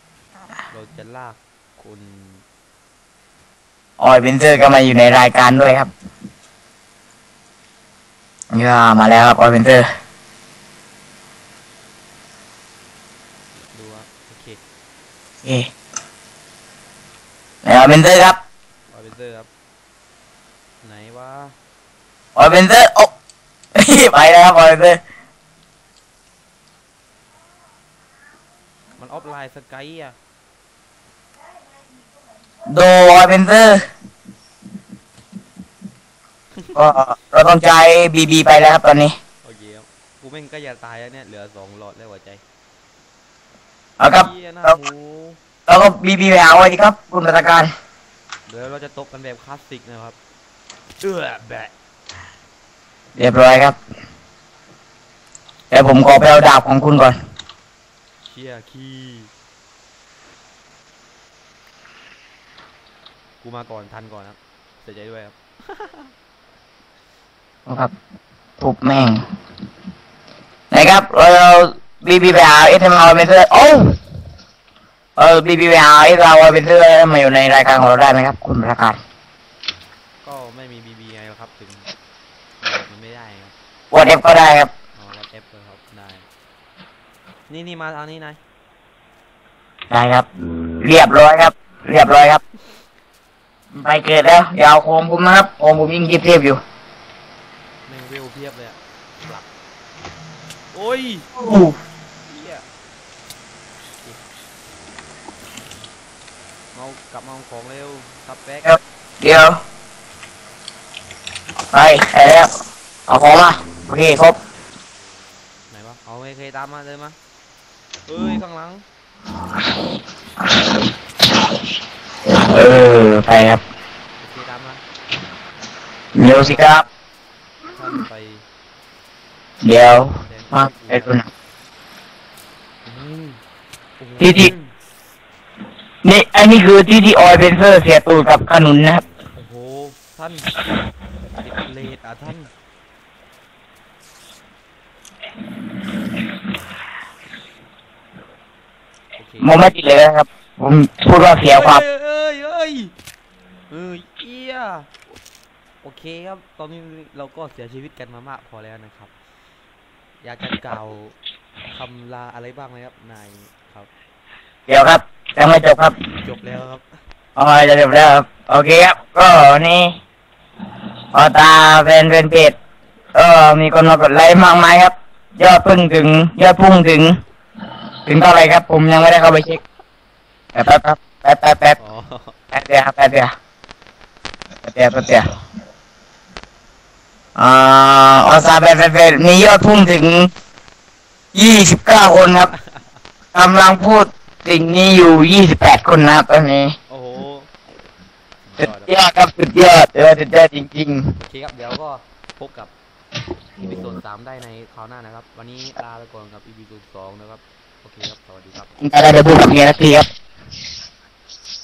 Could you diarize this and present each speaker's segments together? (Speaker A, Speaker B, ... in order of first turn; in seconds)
Speaker A: 0.7-2.4, 13.6-14.6, 18.9-19.5, 20.8-21.6, 29.0-30.1, 36.5-36.8, 39.4-42.4, 44.1-45.4, 48.5-50.2, 51.0-51.7, 58.2-59.3, 63.4-66.1, 80.2-81.9, 82.6-83.5, 85.0-86.3, 87.5-88.4, 97.9-99.5, 100.7-101.3, 102.3-102.6, 106.7-108.8, 115.7-117.2, 118.1-118.8, 124.2-124.8, 126.1-126.8, 127.7-128.4, 130.2-131.1, 132.8-133.4, 134.0-134.7, 139.3-140.7, 141.3-142.5, 149.2-149.7, 151.5-152.9, 153.7-154.9, 155.8-159.1, 160.2-161.2, 161.7-163.9, 166.1-166.9, 181.8-182.3, 192.5-193.0, 196.9-197.5, 198.4-198.9, 201.2-202.7, 203.6-208.7
Speaker B: 4.0-5.9, 8.5-9.8, 15.4-15.7, 17.6-18.4, 22.4-23.1, 23.7-25.0, 32.7-33.8, 36.8-39.1, 44.0-44.7, 45.7-47.7, 53.1-53.8, 55.7-57.1, 67.7-67.9, 68.6-69.2, 70.7-74.0, 75.2-79.0, 83.9-84.7, 89.9-90.2, 90.8-92.4, 93.8-96.6, 101.3-101.8, 108.6-109.6, 111.7-112.5, 113.1-114.3, 122.3-123.6, 126.1-126.8, 129.6-131.2, 134.2-134.5, 136.0-139.0, 149.4-151.8, 164.7-165.9, 167.3-169.9, 171.1-172.5, 173.1-177.2, 178.1-179.6, 180.5-181.8, 182.5-183.3, 184.6-185.3, 187.3-190.3, 191.3-192.5, 193.3-196.7, 198.6-201.2, 208.8-210.1